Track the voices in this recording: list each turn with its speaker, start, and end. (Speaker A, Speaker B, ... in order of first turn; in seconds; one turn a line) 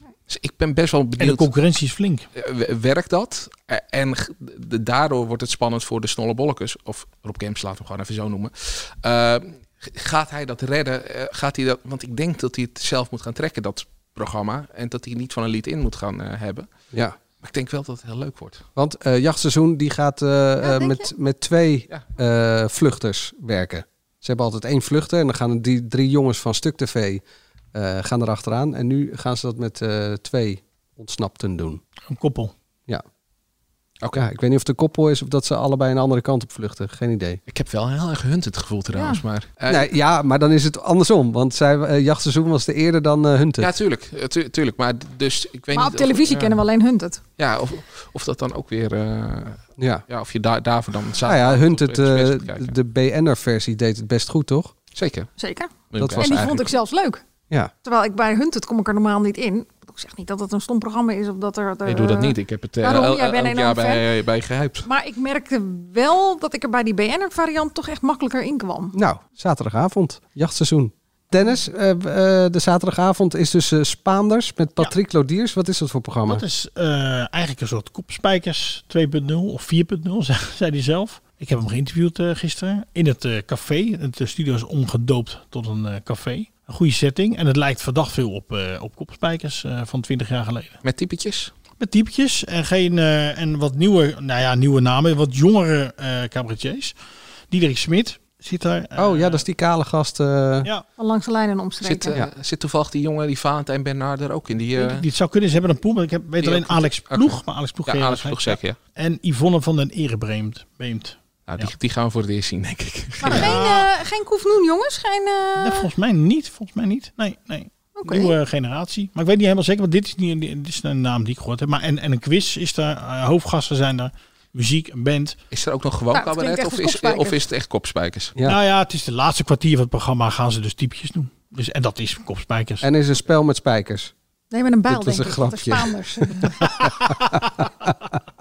Speaker A: 0.3-1.5
Speaker B: 1.2-2.3
Speaker A: 2.4-16.7
Speaker A: 17.4-18.6
Speaker C: 18.8-27.2
Speaker D: 20.6-21.1
Speaker C: 27.7-31.8
Speaker B: 32.1-32.5
Speaker C: 34.1-37.4
Speaker A: 37.5-39.9
Speaker D: 38.9-39.2
Speaker C: 39.7-43.7
Speaker A: 43.6-46.6
Speaker D: 45.7-47.2
Speaker A: 47.4-52.7
Speaker C: 49.8-50.0
Speaker C: 51.2-54.7
Speaker A: 55.0-55.3
Speaker D: 55.4-57.2
Speaker A: 55.9-56.7
Speaker C: 56.0-56.4
Speaker D: 57.8-64.0
Speaker A: 61.9-64.8
Speaker D: 64.8-69.0
Speaker C: 68.9-76.5
Speaker B: 76.3-90.8
Speaker A: 90.8-91.5
Speaker B: 91.8-97.0
Speaker B: 97.5-99.4
Speaker C: 99.0-100.7
Speaker D: 101.0-102.2
Speaker A: 101.8-105.0
Speaker B: 104.8-111.7
Speaker A: 106.4-108.8
Speaker A: 111.5-113.6
Speaker D: 113.2-115.9
Speaker B: 113.2-113.9
Speaker B: 115.6-125.4
Speaker D: 118.0-118.3
Speaker A: 125.5-128.3
Speaker D: 126.1-127.4
Speaker B: 128.4-132.9
Speaker C: 132.8-134.1
Speaker D: 134.5-136.7
Speaker C: 134.9-136.5
Speaker B: 136.8-137.3
Speaker C: 137.3-137.9